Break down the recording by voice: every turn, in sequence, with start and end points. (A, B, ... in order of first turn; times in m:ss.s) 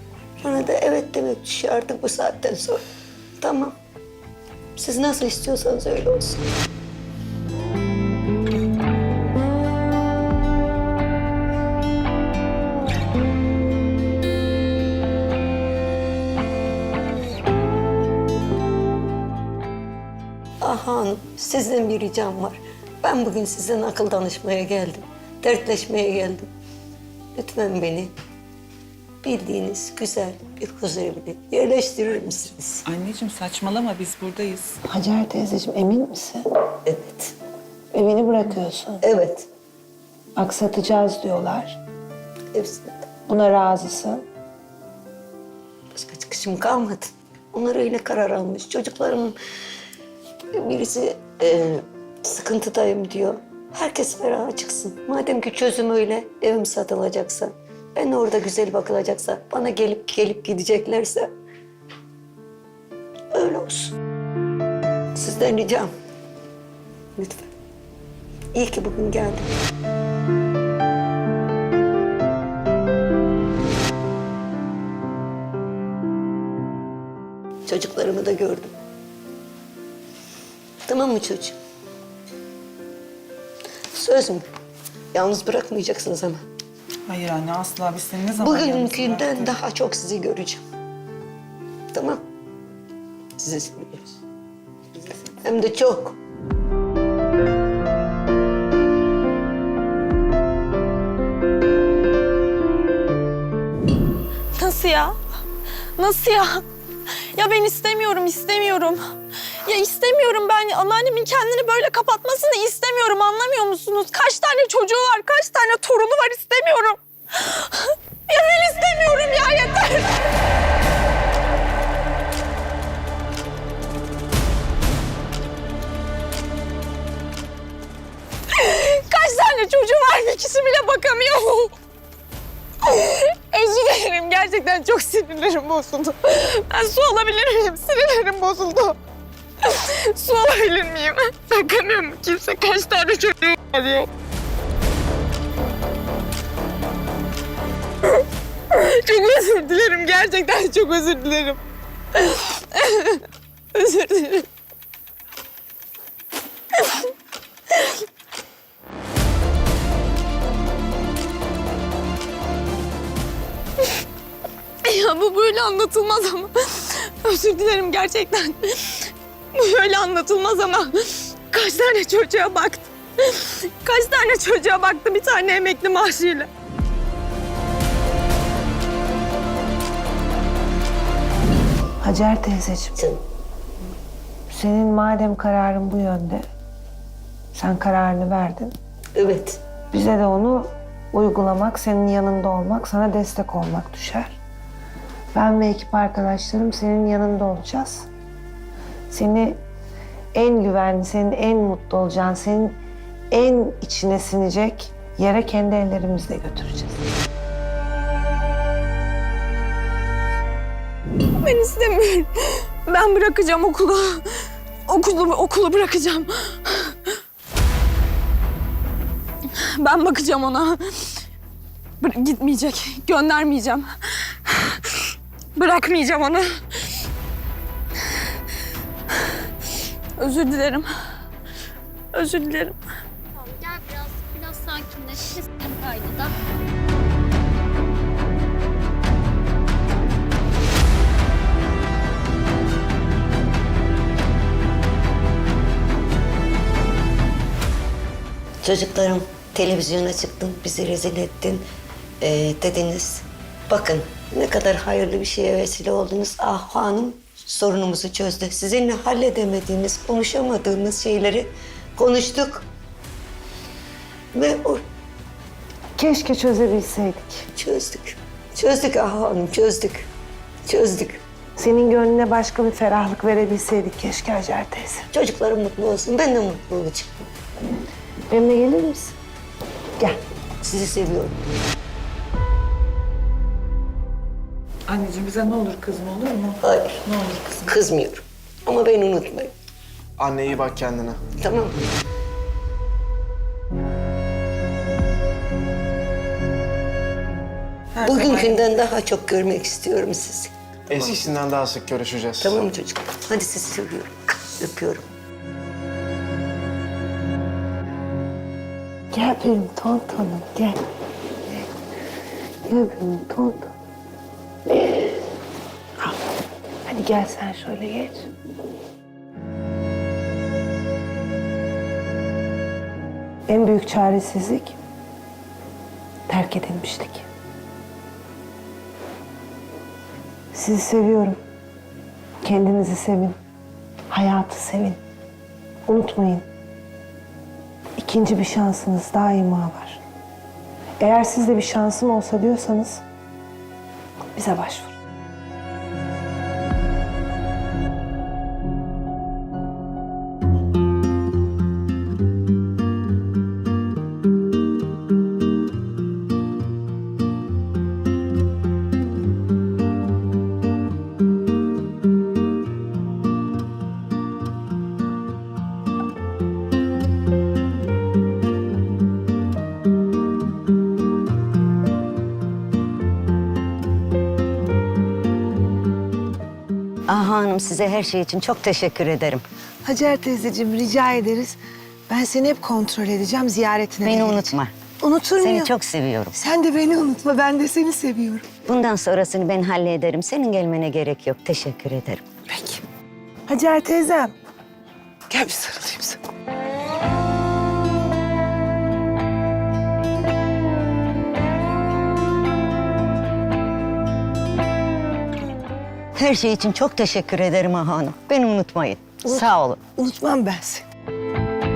0:00.4-0:02.8 A
0:03.4-0:03.8 A
0:04.8-0:06.5 A
0:20.6-0:26.5 A
0:27.3-0:28.1 A
0:29.2-0:32.8 A
0:32.8-0:34.8 B
0:34.9-0:36.4 C
0:36.8-0:37.3 A
0:37.9-0:39.0 C
0:39.0-0:39.5 A
0:40.4-0:41.8 C
0:42.5-0:43.1 A
0:43.3-0:44.2 C
0:45.9-0:49.4 A
0:50.5-1:01.3 A
1:03.3-1:04.0 A
1:05.1-1:05.9 A
1:07.2-1:07.5 A
1:08.5-1:09.5 A
1:17.6-1:18.7 A
1:20.8-1:21.6 A
1:23.9-1:24.5 A
1:25.1-1:26.4 A
1:27.1-1:29.5 B
1:28.4-1:30.6 A
1:31.9-1:32.2 A
1:33.4-1:34.1 A
1:35.2-1:36.2 A
1:44.5-1:45.2 D
1:46.0-1:46.6 D
1:47.3-1:49.1 D
1:49.6-2:00.2 D
2:08.5-2:11.7 D
2:12.8-2:19.0 D
2:19.6-2:24.1 D
2:28.7-2:31.6 D
2:32.1-2:34.5 D
2:36.8-2:37.0 D
2:44.8-2:56.5 D
3:02.0-3:03.0 C
3:04.5-3:06.4 C
3:07.5-3:08.7 C
3:09.1-3:09.6 A
3:09.9-3:14.4 C
3:15.3-3:18.1 C
3:19.1-3:19.6 C
3:20.3-3:22.8 C
3:23.3-3:27.0 C
3:31.4-3:37.0 D
3:39.5-3:41.2 D
3:42.0-3:46.9 D
3:50.2-3:50.9 D
3:52.1-3:52.8 D
3:53.4-3:56.4 E
4:08.6-4:11.6 A
4:12.2-4:22.7 A
4:24.3-4:24.8 A
4:26.0-4:27.5 C
4:27.5-4:30.1 A
4:30.6-4:31.2 A
4:31.6-4:35.1 C
4:35.1-4:37.3 A
4:38.3-4:39.2 C
4:40.6-4:41.4 A
4:44.9-4:47.7 B
4:46.6-4:47.0 A
4:47.6-4:49.5 A
4:50.2-4:51.2 F
4:51.4-4:51.8 A
4:57.9-4:58.6 B
4:58.0-5:00.5 A
5:00.9-5:02.6 F
5:02.4-5:05.1 A
5:09.1-5:10.8 C
5:11.4-5:11.7 C
5:12.6-5:13.7 C
5:14.7-5:15.2 C
5:16.8-5:18.3 C
5:23.5-5:24.8 C
5:26.3-5:27.3 C
5:30.5-5:31.4 C
5:32.4-5:33.4 C
5:34.1-5:35.0 C
5:35.8-5:36.4 C
5:38.0-5:40.0 C
5:41.0-5:43.0 C
5:44.3-5:45.0 C
6:17.1-6:19.4 A
6:19.8-6:25.8 C
6:24.0-6:24.7 A
6:25.4-6:26.3 A
6:26.3-6:28.5 C
6:28.6-6:32.2 A
6:33.5-6:34.3 C
6:35.3-6:36.2 C
6:46.1-6:49.8 A
6:49.2-6:50.8 C